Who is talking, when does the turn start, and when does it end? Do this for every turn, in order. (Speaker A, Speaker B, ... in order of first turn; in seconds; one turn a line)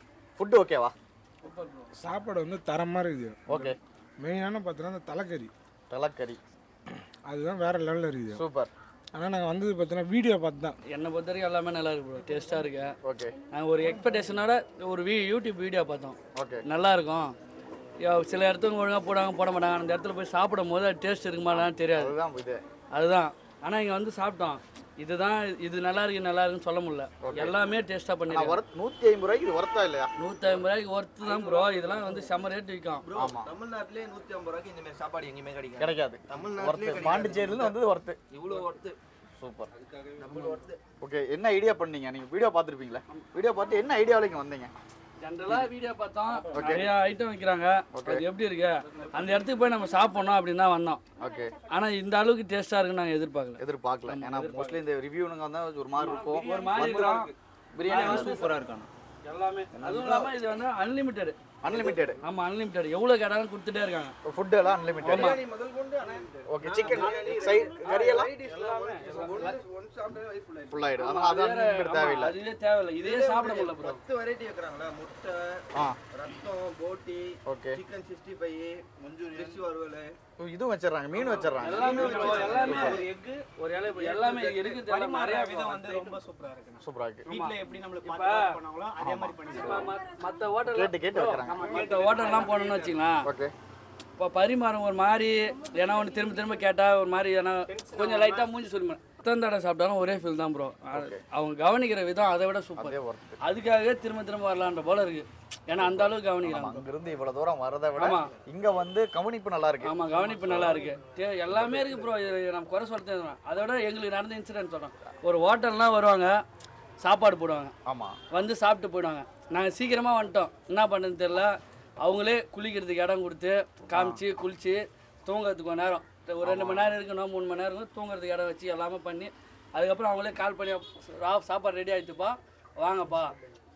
Speaker A: 0.4-0.9
Speaker B: 1.4-1.9
Speaker C: 1.9-3.5
Speaker A: 3.5-3.8
Speaker C: 4.2-5.5
Speaker A: 5.9-6.4
Speaker C: 6.9-8.4
Speaker A: 8.3-8.7
Speaker C: 9.1-10.8
Speaker B: 10.9-12.9
Speaker A: 13.0-13.3
Speaker B: 13.5-17.3
Speaker A: 16.4-16.6
Speaker B: 18.0-22.1
Speaker A: 21.5-22.6
Speaker B: 22.9-28.6
Speaker A: 27.2-27.6
Speaker A: 28.3-30.1
Speaker B: 30.2-33.1
Speaker D: 31.3-32.2
Speaker D: 33.0-37.8
Speaker A: 33.1-33.5
Speaker A: 35.8-38.2
Speaker D: 38.3-39.0
Speaker A: 39.4-39.7
Speaker D: 40.2-40.8
Speaker A: 41.0-44.7
Speaker B: 45.2-51.0
Speaker A: 46.5-46.9
Speaker A: 47.9-48.2
Speaker A: 51.2-51.6
Speaker B: 51.7-54.8
Speaker A: 53.6-56.9
Speaker D: 56.2-57.3
Speaker B: 56.2-57.3
Speaker A: 57.8-58.5
Speaker B: 57.9-58.6
Speaker D: 58.2-58.9
Speaker B: 59.3-61.4
Speaker D: 59.8-60.2
Speaker A: 61.6-62.2
Speaker D: 61.7-62.0
Speaker B: 62.2-64.1
Speaker A: 64.3-65.4
Speaker B: 65.0-65.4
Speaker D: 65.0-70.8
Speaker A: 66.5-68.3
Speaker B: 66.9-69.6
Speaker A: 70.7-72.4
Speaker B: 71.0-74.0
Speaker D: 73.0-80.1
Speaker A: 77.5-77.8
Speaker A: 80.4-83.0
Speaker E: 81.2-89.9
Speaker B: 81.6-83.1
Speaker D: 81.9-83.0
Speaker B: 83.6-86.2
Speaker A: 86.8-87.2
Speaker B: 87.3-88.5
Speaker A: 89.0-89.9
Speaker B: 89.5-93.2
Speaker A: 90.7-91.6
Speaker E: 91.5-93.0
Speaker A: 93.2-93.5
Speaker B: 94.2-106.8
Speaker E: 97.7-98.5
Speaker A: 100.9-101.2
Speaker A: 102.8-103.4
Speaker A: 105.8-110.8
Speaker B: 108.0-108.3
Speaker B: 109.8-116.3
Speaker B: 117.0-117.7
Speaker A: 117.9-118.2
Speaker B: 118.3-133.3
Speaker A: 123.9-124.2
Speaker A: 126.4-127.0